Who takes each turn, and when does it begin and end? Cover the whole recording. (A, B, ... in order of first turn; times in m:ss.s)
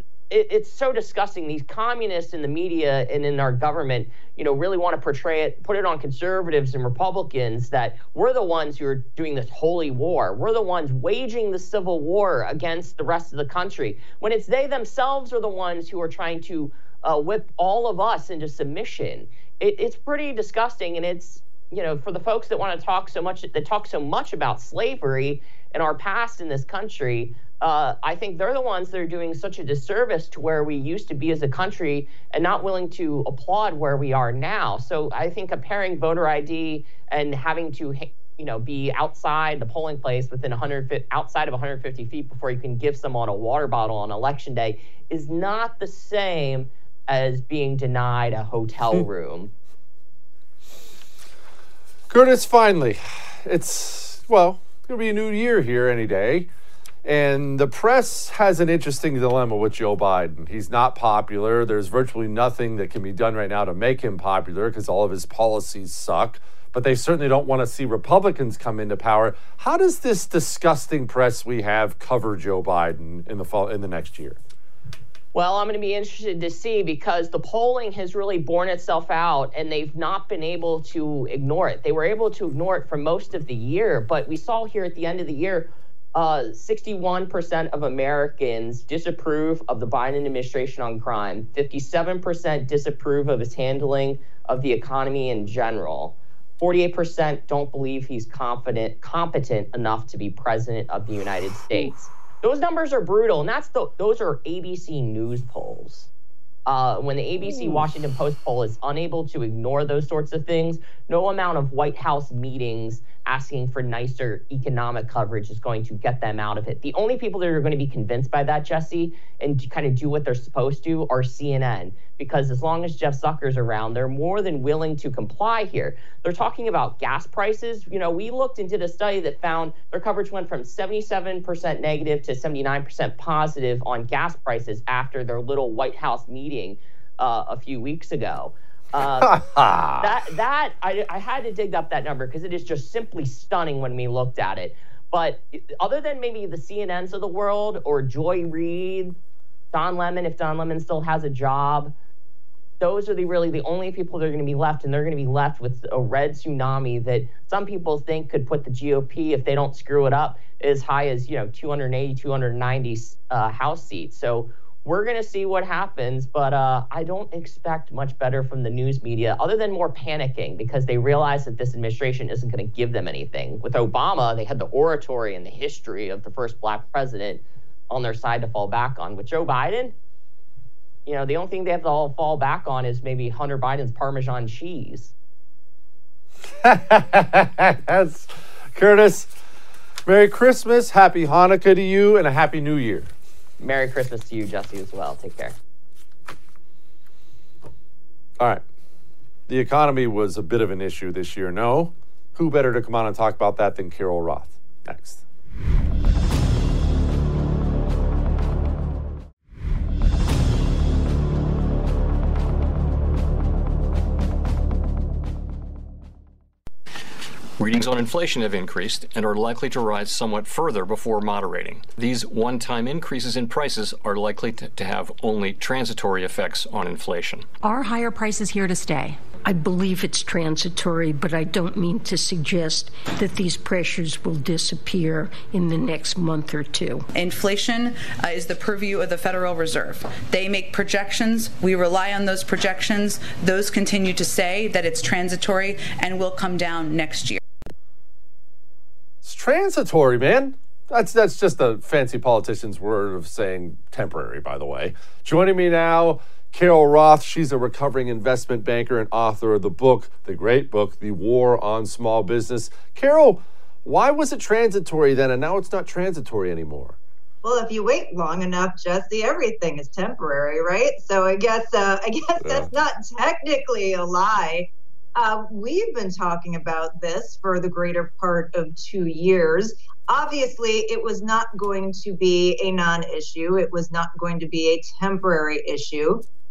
0:00.3-0:49.5 A
0:52.1-0:56.5 B
0:57.0-1:14.4 B
1:15.3-1:46.1 A
1:46.6-2:19.3 A
2:19.2-2:20.1 B
2:20.0-2:29.1 A
2:29.7-2:31.9 A
2:32.8-2:59.9 A
3:01.0-3:05.1 A
3:06.6-3:09.3 B
3:10.0-3:13.1 B
3:13.6-3:15.5 A
3:19.5-3:25.2 B
3:37.6-3:47.4 C
3:47.6-3:57.0 D
3:57.1-4:07.4 E
4:09.2-4:27.0 B
4:27.4-4:46.2 F
4:32.4-4:32.7 B